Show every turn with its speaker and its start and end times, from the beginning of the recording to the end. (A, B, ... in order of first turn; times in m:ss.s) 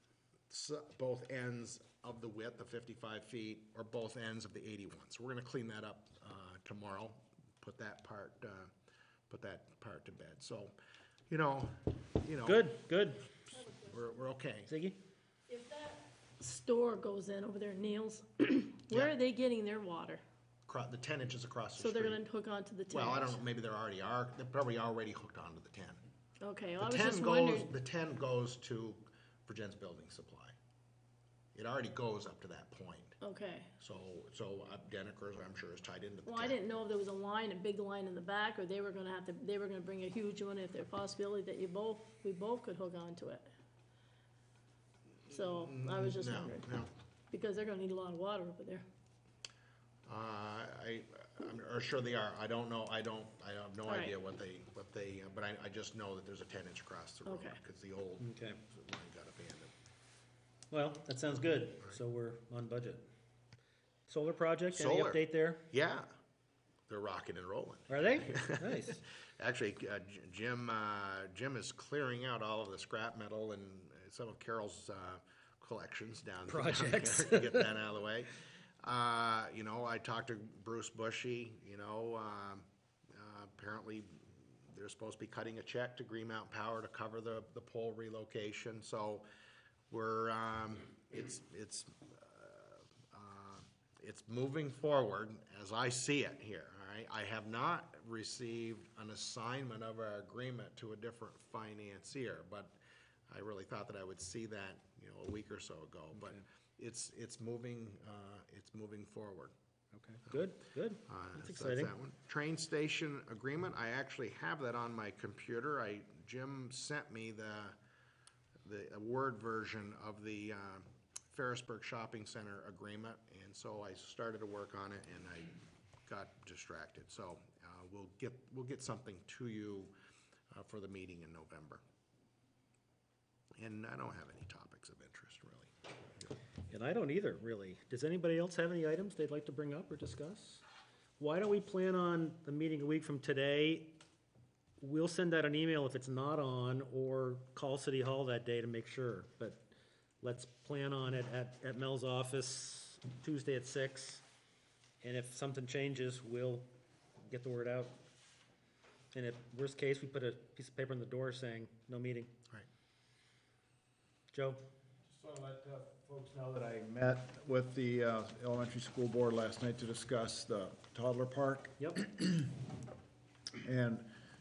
0:00.5-0:08.7 A
0:09.3-0:10.7 A
0:11.3-0:12.7 A
0:12.4-0:13.2 B
0:13.5-0:14.7 A
0:13.5-0:13.9 C
0:14.7-0:15.0 B
0:15.5-0:20.2 C
0:20.7-0:22.2 A
0:21.8-0:23.4 C
0:22.9-0:26.0 A
0:26.4-0:27.7 C
0:26.8-0:30.6 A
0:31.5-0:33.2 A
0:33.2-0:33.7 C
0:33.8-0:36.6 A
0:36.2-0:43.5 C
0:45.3-0:46.7 C
0:45.3-0:46.9 A
0:47.3-0:48.8 C
0:50.0-0:59.7 A
0:53.9-0:54.1 C
0:57.2-0:57.6 C
0:58.2-0:58.6 B
1:00.7-1:03.1 B
1:04.1-1:05.6 B
1:04.7-1:06.1 A
1:06.9-1:29.2 A
1:07.9-1:09.0 B
1:16.5-1:17.7 B
1:29.9-1:42.8 A
1:43.3-1:49.5 A
1:49.9-1:51.9 B
1:51.0-1:57.8 A
1:58.6-2:09.9 A
2:10.5-2:11.8 A
2:13.6-2:15.7 A
2:16.7-2:20.6 B
2:21.2-2:24.0 B
2:24.8-2:29.7 B
2:30.2-2:34.2 B
2:35.0-2:36.7 B
2:37.2-2:38.0 B
2:39.1-2:42.3 B
2:44.3-2:44.6 B
2:45.1-2:52.6 D
2:51.8-2:52.0 B
2:53.6-2:54.1 D